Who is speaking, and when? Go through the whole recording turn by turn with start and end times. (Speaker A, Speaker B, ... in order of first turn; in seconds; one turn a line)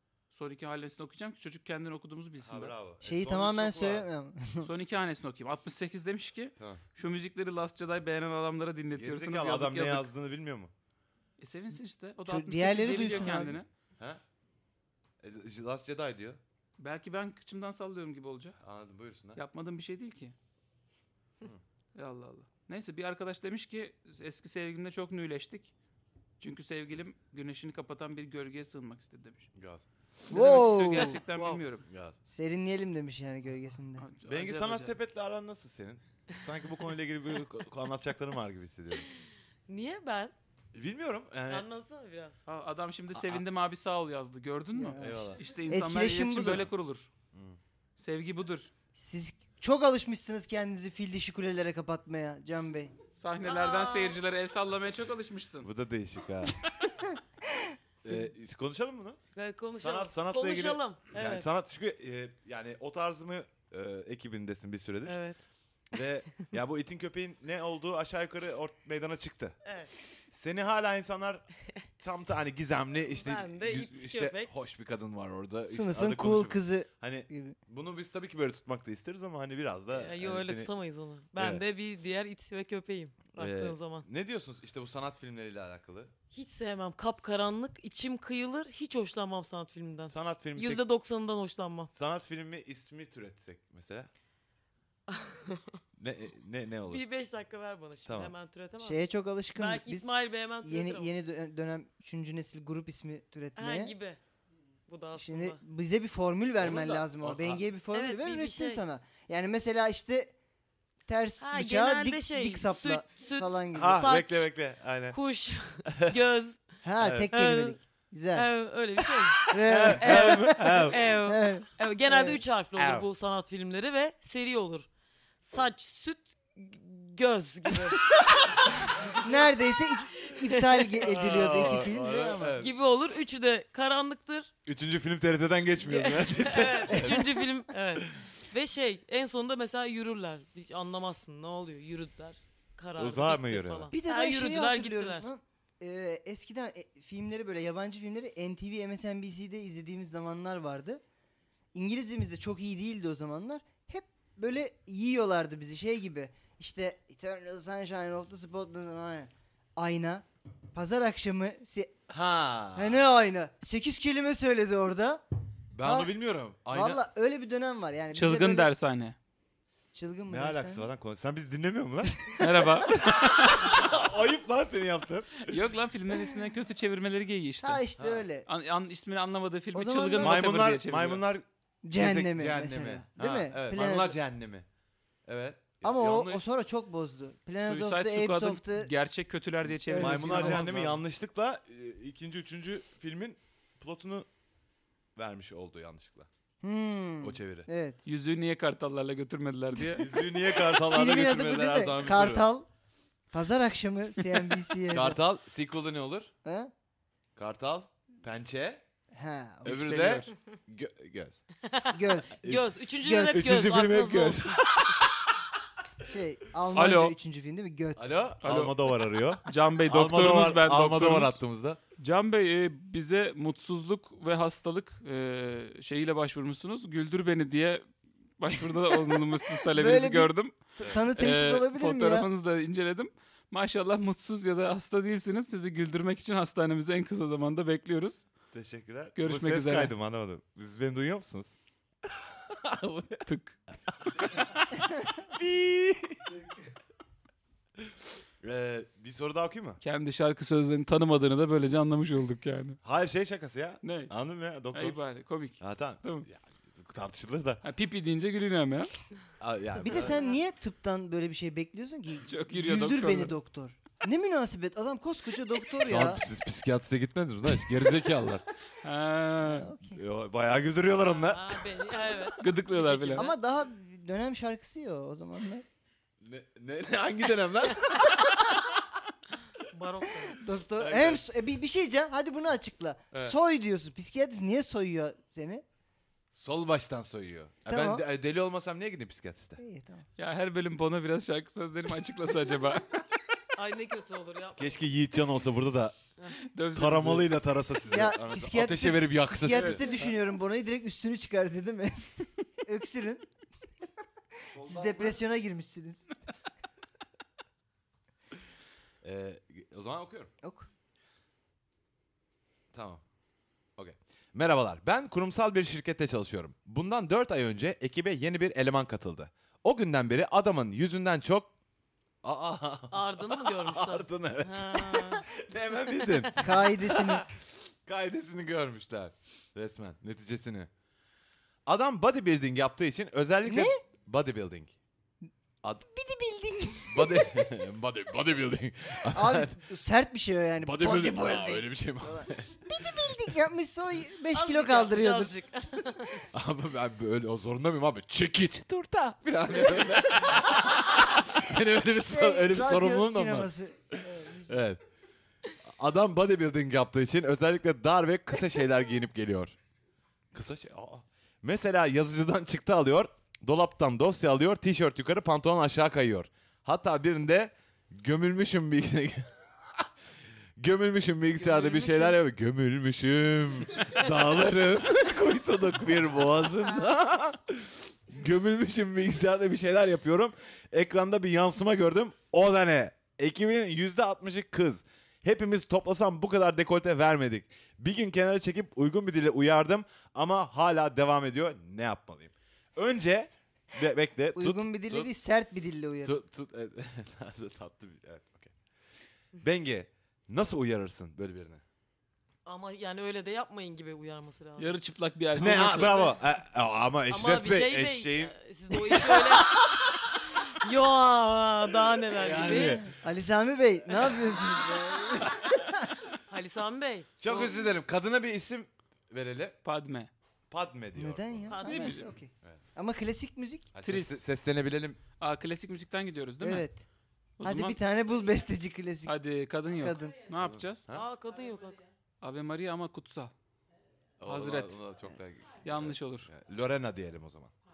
Speaker A: 0.3-2.8
Speaker B: 2.4-4.1
Speaker C: 3.0-4.7
Speaker A: 4.6-10.1
Speaker B: 8.9-10.7
Speaker A: 11.4-13.7
Speaker C: 12.3-13.6
Speaker B: 15.2-16.4
Speaker A: 16.8-18.6
Speaker B: 18.6-19.4
Speaker A: 19.4-20.4
Speaker A: 21.9-25.7
Speaker A: 26.4-29.5
Speaker B: 29.6-29.9
Speaker A: 30.3-31.9
Speaker C: 30.3-31.2
Speaker D: 30.9-31.6
Speaker B: 31.9-32.2
Speaker C: 32.3-34.1
Speaker A: 34.0-34.9
Speaker B: 34.3-39.1
Speaker D: 39.7-40.3
Speaker B: 40.7-41.7
Speaker D: 41.5-42.4
Speaker A: 42.5-47.1
Speaker B: 43.1-43.4
Speaker C: 44.7-46.7
Speaker B: 45.0-45.4
Speaker B: 47.3-47.6
Speaker A: 48.0-48.7
Speaker C: 49.0-52.9
Speaker A: 53.2-55.7
Speaker D: 53.4-54.2
Speaker B: 55.6-56.6
Speaker C: 57.1-58.2
Speaker B: 58.0-59.2
Speaker D: 59.4-61.5
Speaker B: 59.7-65.2
Speaker D: 65.1-65.4
Speaker B: 65.9-69.6
Speaker D: 69.6-69.9
Speaker B: 70.3-71.5
Speaker B: 72.0-80.7
Speaker D: 73.1-74.5
Speaker C: 75.7-77.6
Speaker D: 79.9-84.1
Speaker B: 81.4-81.6
Speaker B: 83.4-86.1
Speaker D: 86.3-91.9
Speaker B: 90.1-90.8
Speaker B: 91.9-94.1
Speaker D: 95.1-95.8
Speaker B: 96.0-97.0
Speaker D: 96.9-99.0
Speaker B: 98.0-98.3
Speaker C: 98.8-100.1
Speaker D: 99.5-101.1
Speaker C: 100.6-104.0
Speaker D: 103.6-104.2
Speaker D: 104.9-105.6
Speaker C: 105.2-110.3
Speaker B: 106.6-107.6
Speaker D: 107.9-108.8
Speaker C: 111.1-114.1
Speaker D: 111.4-114.5
Speaker B: 113.7-115.2
Speaker D: 115.1-116.7
Speaker B: 115.9-116.1
Speaker C: 116.8-118.5
Speaker B: 117.0-117.3
Speaker D: 117.3-117.8
Speaker D: 118.3-124.9
Speaker B: 119.5-121.1
Speaker C: 119.5-122.4
Speaker B: 122.8-123.1
Speaker D: 125.4-128.1
Speaker D: 128.9-129.2
Speaker C: 129.2-132.6
Speaker D: 130.2-131.1
Speaker B: 131.0-132.7
Speaker D: 132.6-134.5
Speaker B: 134.7-137.5
Speaker D: 135.8-145.2
Speaker B: 143.0-143.9
Speaker C: 143.9-151.0
Speaker C: 151.7-161.9
Speaker B: 162.1-163.0
Speaker C: 162.8-165.2
Speaker B: 165.7-167.0
Speaker C: 165.8-166.1
Speaker C: 166.7-168.7
Speaker A: 168.1-169.2
Speaker C: 169.9-170.9
Speaker B: 170.3-175.5
Speaker A: 172.4-173.1
Speaker A: 175.5-177.8
Speaker C: 177.6-178.5
Speaker B: 178.0-178.2
Speaker A: 178.5-181.2
Speaker C: 179.7-180.5
Speaker B: 180.2-184.7
Speaker C: 181.8-184.2
Speaker B: 185.3-186.4
Speaker C: 185.8-188.9
Speaker A: 187.6-191.0
Speaker C: 189.7-190.9
Speaker B: 189.9-194.3
Speaker B: 195.2-196.3
Speaker C: 196.6-198.0
Speaker B: 197.2-197.7
Speaker A: 198.1-200.1
Speaker B: 199.9-202.5
Speaker C: 200.4-202.7
Speaker C: 203.3-205.2
Speaker B: 204.9-206.3
Speaker C: 206.4-206.7
Speaker B: 207.4-208.8
Speaker C: 209.1-209.9
Speaker B: 209.7-211.4
Speaker A: 209.7-210.3
Speaker D: 211.6-214.8
Speaker C: 211.9-212.4
Speaker B: 212.4-215.3
Speaker C: 213.0-213.5
Speaker C: 216.0-218.2
Speaker A: 216.7-217.1
Speaker B: 218.0-221.8
Speaker A: 218.4-218.9
Speaker A: 219.4-221.4
Speaker A: 222.0-227.9
Speaker A: 228.4-230.6
Speaker C: 229.7-232.3
Speaker B: 230.8-231.1
Speaker A: 231.1-238.3
Speaker B: 238.5-241.5
Speaker A: 239.2-239.9
Speaker B: 242.1-243.3
Speaker A: 243.3-243.6
Speaker B: 244.1-244.5
Speaker B: 245.2-246.2
Speaker B: 248.4-249.8
Speaker A: 249.8-252.8
Speaker B: 252.8-255.0
Speaker A: 253.8-254.1
Speaker A: 254.7-256.3
Speaker B: 255.6-257.6
Speaker A: 257.6-258.9
Speaker B: 259.4-260.2
Speaker C: 259.8-266.2
Speaker A: 262.3-263.3
Speaker B: 265.8-268.4
Speaker A: 268.8-269.7
Speaker C: 269.4-270.0
Speaker B: 269.9-272.1
Speaker D: 271.0-273.4
Speaker A: 272.4-273.3
Speaker C: 273.1-275.6
Speaker B: 276.2-278.8
Speaker D: 279.7-280.4
Speaker C: 280.3-285.6
Speaker B: 280.8-281.2
Speaker B: 286.3-289.6
Speaker C: 287.7-288.0
Speaker C: 289.6-290.1
Speaker A: 290.2-293.0
Speaker D: 293.6-294.8
Speaker B: 294.6-296.0
Speaker A: 296.5-297.3
Speaker B: 296.7-299.9
Speaker C: 297.9-303.3
Speaker A: 299.5-300.0
Speaker C: 304.5-306.1
Speaker B: 304.6-305.1
Speaker B: 309.0-310.3
Speaker C: 310.4-310.7
Speaker B: 312.7-313.0
Speaker B: 313.8-321.5
Speaker B: 322.2-330.7
Speaker D: 322.9-325.3
Speaker D: 326.0-326.5
Speaker C: 326.4-327.2
Speaker B: 331.7-334.8
Speaker C: 333.4-333.8
Speaker C: 335.9-337.5
Speaker B: 336.9-339.6
Speaker C: 339.0-345.4
Speaker B: 340.6-343.2
Speaker D: 344.3-346.3
Speaker B: 346.3-354.8
Speaker C: 351.8-354.6
Speaker B: 355.7-359.6
Speaker B: 360.3-369.9
Speaker B: 370.6-395.1
Speaker D: 371.4-372.2
Speaker C: 394.4-396.1
Speaker B: 396.0-398.5
Speaker B: 399.4-401.6
Speaker D: 402.4-404.8
Speaker A: 404.6-406.1
Speaker B: 405.4-410.4
Speaker D: 405.4-405.8
Speaker D: 407.1-412.8
Speaker B: 412.1-412.9
Speaker C: 412.3-415.9
Speaker D: 416.2-417.7
Speaker B: 417.2-419.6
Speaker A: 419.6-420.1
Speaker B: 420.5-421.5
Speaker C: 420.9-423.7
Speaker D: 421.5-422.1
Speaker A: 421.6-422.0
Speaker B: 423.7-425.0
Speaker A: 423.8-424.2
Speaker A: 425.2-426.7
Speaker C: 426.4-426.9
Speaker A: 427.4-427.8
Speaker C: 427.4-429.2
Speaker A: 429.1-430.9
Speaker C: 429.8-430.2
Speaker B: 430.4-431.1
Speaker D: 430.9-431.8
Speaker A: 432.2-433.3
Speaker B: 434.2-437.5
Speaker A: 434.3-434.8
Speaker A: 435.6-436.3